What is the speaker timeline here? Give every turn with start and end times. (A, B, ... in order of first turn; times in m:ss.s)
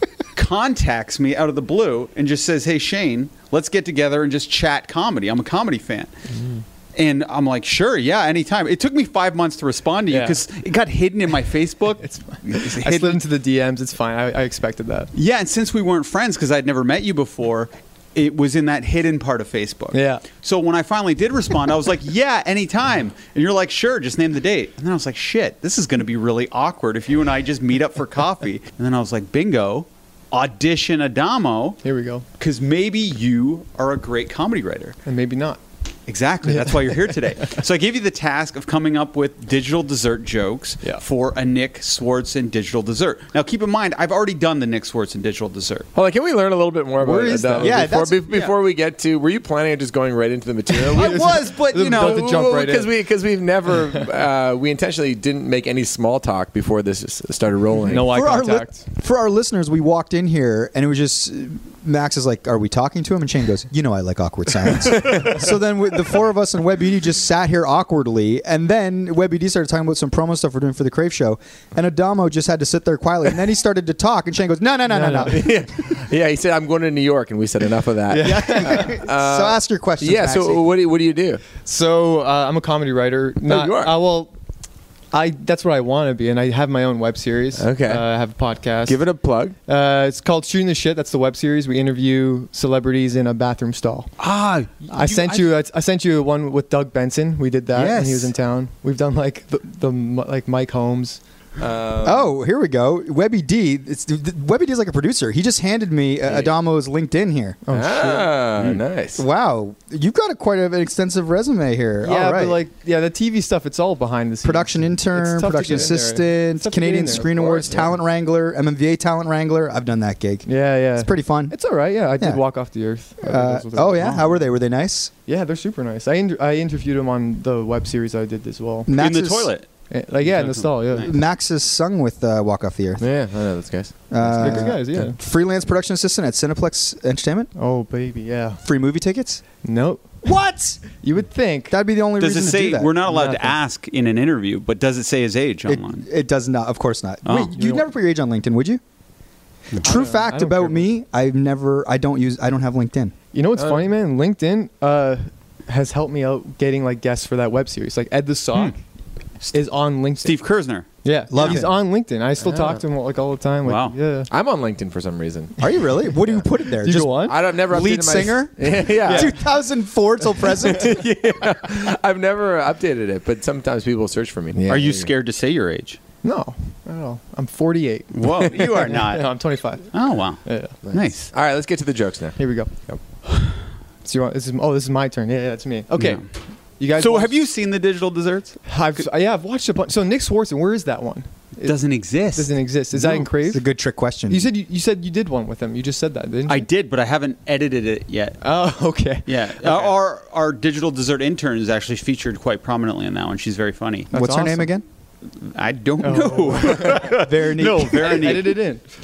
0:00.3-0:06.1 A
0:07.0-0:13.2 A
0:10.1-0:10.4 B
0:12.0-0:15.1 B
0:15.1-0:31.8 A
0:19.9-0:20.2 B
0:31.8-0:32.2 B
0:32.4-0:35.0 A
0:35.0-0:35.6 B
0:36.1-0:45.9 A
0:36.5-0:36.9 B
0:45.9-0:58.1 C
0:47.0-0:47.9 B
0:47.6-0:48.2 D
0:50.8-0:52.9 B
0:50.9-0:52.3 A
0:57.8-0:58.8 B
0:58.0-1:15.5 D
1:14.9-1:15.5 B
1:15.3-1:21.4 C
1:18.1-1:19.0 B
1:18.2-1:20.6 D
1:21.6-1:24.3 B
1:23.4-1:24.0 C
1:25.1-1:29.1 B
1:27.6-1:28.1 C
1:28.8-1:29.6 C
1:29.7-1:34.1 B
1:34.2-1:35.5 A
1:34.9-1:41.2 B
1:37.7-1:38.3 D
1:41.6-1:42.3 C
1:42.0-1:47.6 D
1:47.6-1:48.4 B
1:47.7-1:49.2 C
1:49.2-1:52.6 D
1:52.0-1:57.9 B
1:54.4-2:01.6 D
1:57.3-1:57.9 C
2:00.4-2:04.5 B
2:03.2-2:05.1 D
2:05.2-2:08.9 B
2:08.9-2:09.5 D
2:08.9-2:09.7 A
2:09.9-2:11.1 B
2:10.2-2:11.1 A
2:10.9-2:13.0 D
2:13.0-2:15.0 C
2:14.1-2:17.5 D
2:14.2-2:15.2 B
2:17.5-2:18.6 B
2:18.6-2:19.4 D
2:19.6-2:21.8 B
2:20.2-2:20.8 D
2:21.7-2:22.9 D
2:22.2-2:26.0 A
2:23.0-2:23.6 B
2:25.7-2:28.8 D
2:27.2-2:27.5 A
2:27.6-2:27.8 B
2:29.8-2:33.1 D
2:29.8-2:30.9 B
2:33.3-2:38.8 B
2:33.6-2:33.8 C
2:39.4-2:41.6 A
2:39.5-2:44.3 B
2:41.3-2:41.7 D
2:42.4-2:42.8 C
2:43.6-2:44.0 A
2:44.3-2:45.5 C
2:45.6-2:50.9 D
2:46.7-2:47.4 B
2:47.3-2:49.4 C
2:48.9-2:49.4 B
2:50.5-2:55.1 C
2:54.7-2:56.0 A
2:56.2-3:00.8 B
2:58.1-3:01.3 A
3:00.8-3:03.0 C
3:02.4-3:02.9 B
3:04.0-3:07.4 B
3:05.9-3:06.3 A
3:07.0-3:09.1 A
3:08.6-3:13.6 B
3:11.6-3:12.5 A
3:13.0-3:14.5 D
3:14.3-3:16.7 B
3:16.5-3:18.4 A
3:18.4-3:19.9 B
3:19.2-3:24.1 A
3:24.1-3:24.7 B
3:24.1-3:24.8 D
3:25.4-3:28.6 A
3:26.0-3:27.2 B
3:27.2-3:28.4 D
3:28.0-3:28.9 B